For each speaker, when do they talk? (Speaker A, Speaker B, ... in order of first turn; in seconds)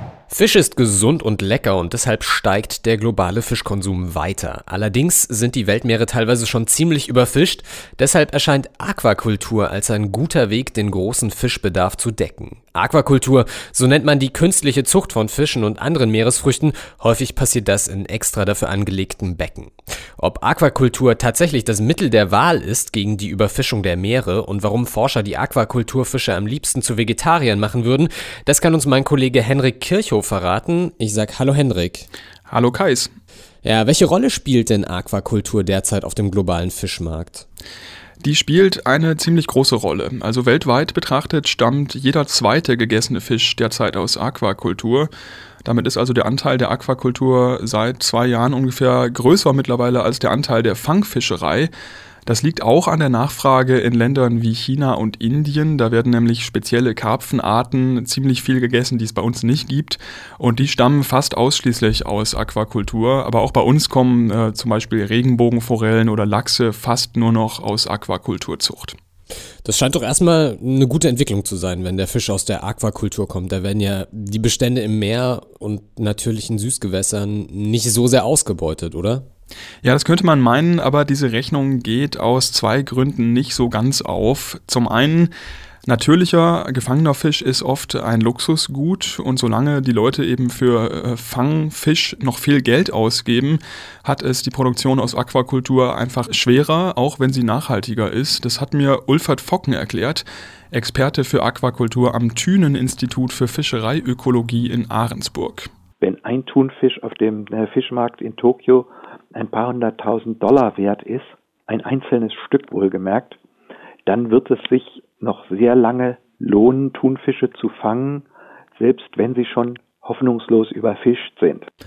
Speaker A: 0.3-32.1, 33.6-37.5, 69.6-79.3
Speaker B: 32.5-33.1, 38.2-45.1, 45.6-51.7, 52.2-69.0, 79.8-85.3, 85.9-105.7
Speaker C: 106.0-113.4, 114.1-121.7